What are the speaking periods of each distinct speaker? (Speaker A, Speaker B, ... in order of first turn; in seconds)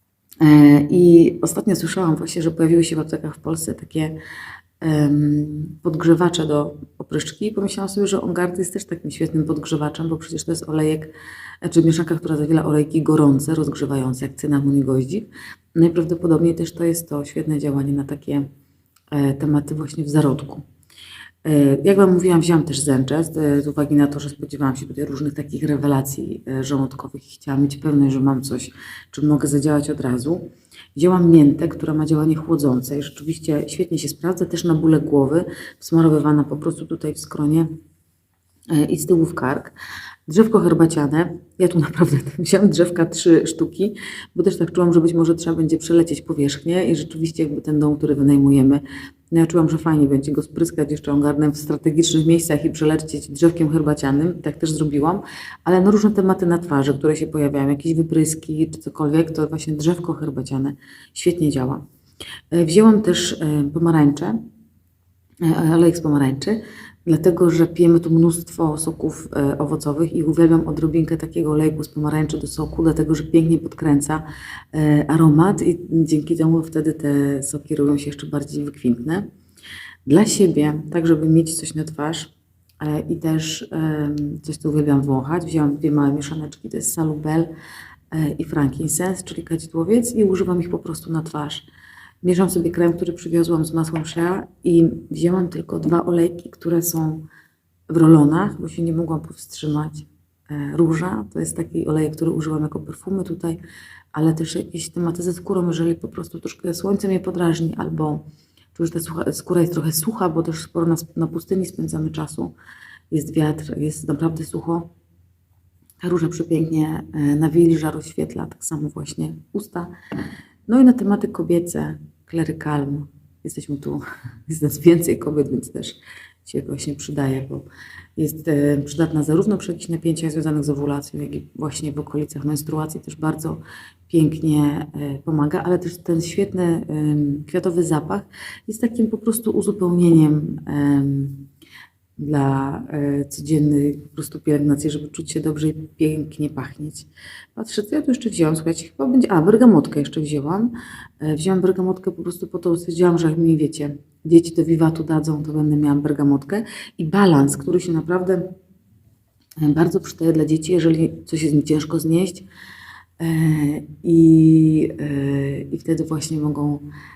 Speaker A: 0.4-4.2, 4.8-11.1, 11.6-18.5, 19.1-20.6, 21.4-37.7, 38.7-39.7, 40.3-61.8, 62.5-64.4, 65.4-79.3, 80.1-87.5, 88.1-91.7, 92.2-97.2, 97.9-103.6, 104.1-108.2, 108.8-112.5, 113.1-114.9, 116.0-119.9, 120.7-127.7, 128.2-141.5, 142.2-158.5, 159.6-162.5, 163.2-166.9